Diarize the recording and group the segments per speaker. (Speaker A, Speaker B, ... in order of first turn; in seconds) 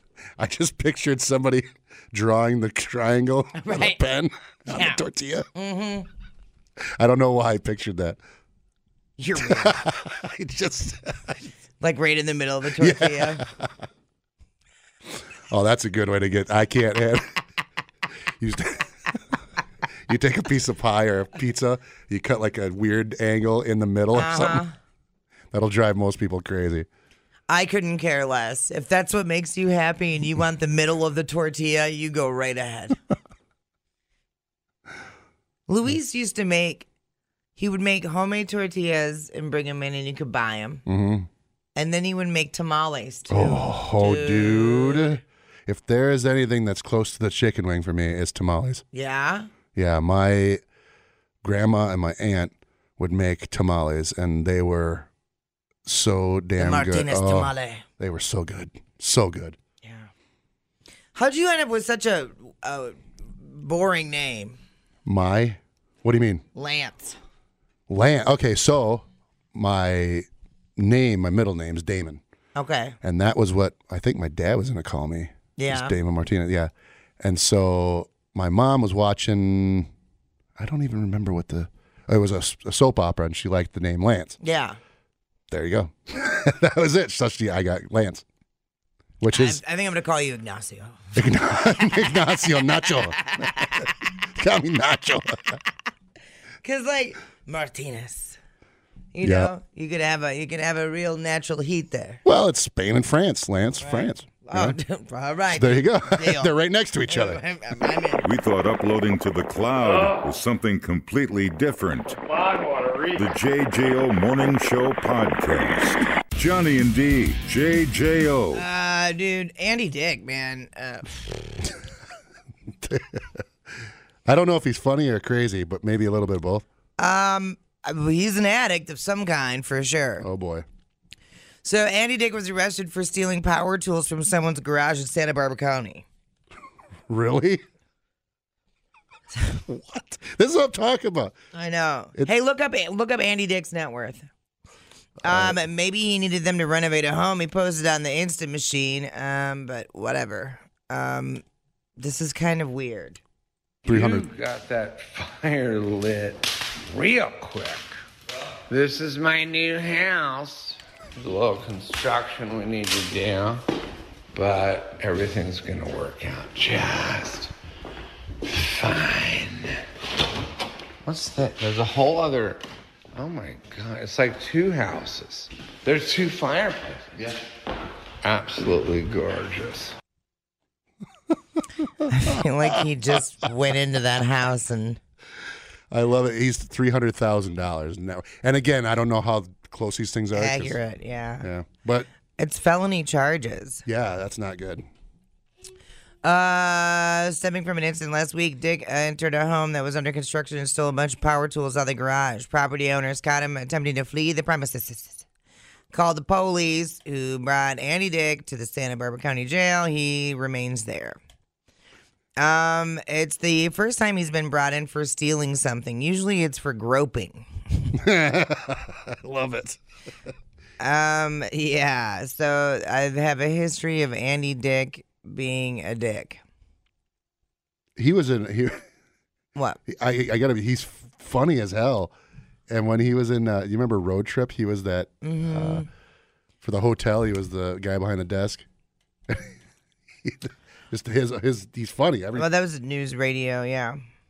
Speaker A: 0.4-5.5, 7.0-8.2, 9.4-11.4, 12.8-13.7, 15.5-17.4, 18.4-19.2, 20.1-24.6, 25.5-26.9, 40.9-41.3, 43.3-48.8, 49.8-50.6, 51.4-55.1, 55.9-59.6, 65.1-66.4, 67.9-70.3, 70.8-72.2, 73.0-79.9, 80.6-84.4, 85.5-88.2, 89.2-89.6, 91.2-95.6, 99.2-99.5, 102.2-104.8, 105.5-107.4, 122.8-123.4, 124.3-126.7, 130.2-130.7, 137.1-137.6, 139.4-141.3, 145.2-145.6, 153.9-154.3, 185.9-190.8, 191.4-192.1, 193.9-194.9, 217.9-219.8, 228.0-228.8, 229.9-232.1, 232.7-235.8, 236.6-238.7, 239.3-239.5, 240.2-242.5
Speaker B: 3.5-4.0, 4.7-5.0, 5.5-6.1, 9.2-9.9, 11.8-13.4, 24.1-24.8, 27.5-33.0, 35.7-36.9, 37.6-40.8, 41.8-45.2, 48.9-49.5, 56.6-57.8, 59.8-60.1, 61.1-64.6, 66.5-67.2, 72.6-73.0, 75.6-75.9, 84.4-84.8, 89.3-91.1, 92.8-93.9, 96.6-98.4, 99.1-102.2, 103.8-106.5, 107.1-108.2, 118.5-121.3, 127.0-130.3, 131.6-136.1, 141.5-144.3, 145.2-151.4, 152.0-153.2, 182.1-185.0, 190.3-191.5, 192.4-193.8, 196.2-205.3, 205.9-211.2, 212.4-217.5, 220.8-226.4, 229.6-229.8, 235.2-235.9, 242.4-244.0
Speaker C: 108.2-112.2, 113.2-118.6
Speaker D: 153.8-158.0, 158.7-163.6, 164.3-167.5, 168.4-169.8, 171.1-172.6, 173.1-177.4, 178.2-179.9